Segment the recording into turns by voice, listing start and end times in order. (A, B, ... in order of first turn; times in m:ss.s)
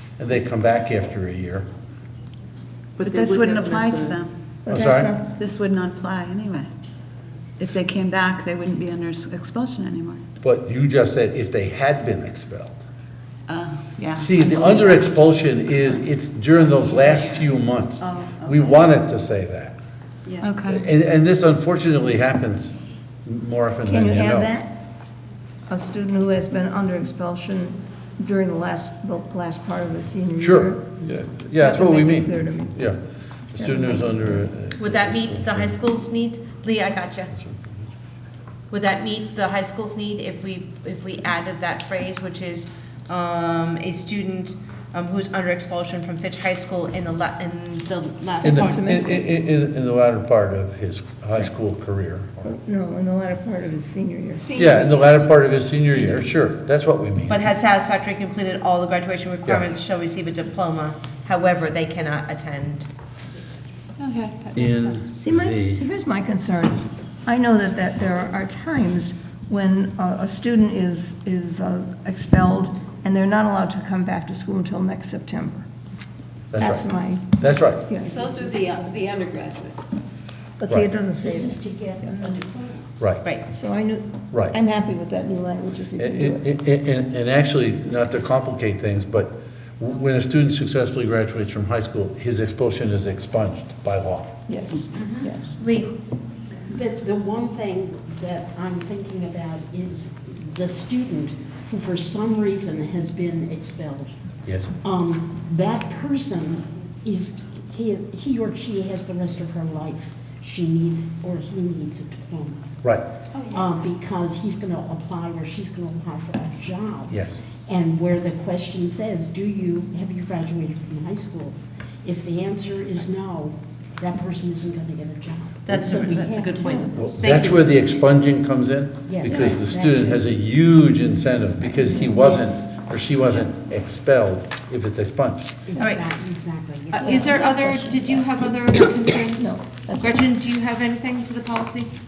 0:00.2-0:01.7 A
0:03.0-0:04.3 B
0:03.0-0:04.2 C
0:04.6-0:05.2 D
0:04.7-0:05.2 A
0:05.3-0:06.7 B
0:07.6-0:10.2 B
0:10.4-0:12.8 A
0:13.5-0:15.9 B
0:14.2-0:19.8 A
0:16.6-0:17.5 B
0:18.2-0:18.7 B
0:20.4-0:20.9 B
0:20.7-0:22.7 A
0:23.2-0:24.5 A
0:23.9-0:24.9 D
0:25.7-0:30.9 D
0:30.4-0:33.0 A
0:31.5-0:32.9 D
0:33.6-0:35.8 A
0:33.6-0:34.5 D
0:34.8-0:37.3 C
0:38.7-0:48.7 C
0:48.4-0:49.3 D
0:48.4-0:52.5 A
0:52.4-0:54.6 D
0:54.4-0:55.2 E
0:54.6-0:57.4 A
0:57.3-1:02.9 C
1:04.6-1:05.9 A
1:05.2-1:15.7 D
1:16.5-1:18.0 A
1:16.6-1:18.2 D
1:18.0-1:20.0 E
1:18.1-1:19.0 F
1:20.6-1:22.4 D
1:21.1-1:22.7 F
1:23.5-1:26.4 D
1:26.0-1:34.4 A
1:34.5-1:35.6 D
1:35.6-1:35.9 C
1:36.7-1:44.2 F
1:44.4-1:44.7 A
1:44.8-1:52.9 F
1:52.8-1:53.1 A
1:53.5-2:07.2 F
1:57.1-1:57.4 A
2:05.7-2:07.7 C
2:06.9-2:15.6 A
2:09.0-2:10.3 F
2:11.8-2:12.5 F
2:15.7-2:18.3 F
2:16.9-2:19.4 C
2:17.0-2:19.3 E
2:17.1-2:17.9 D
2:19.4-2:20.2 D
2:20.0-2:21.9 C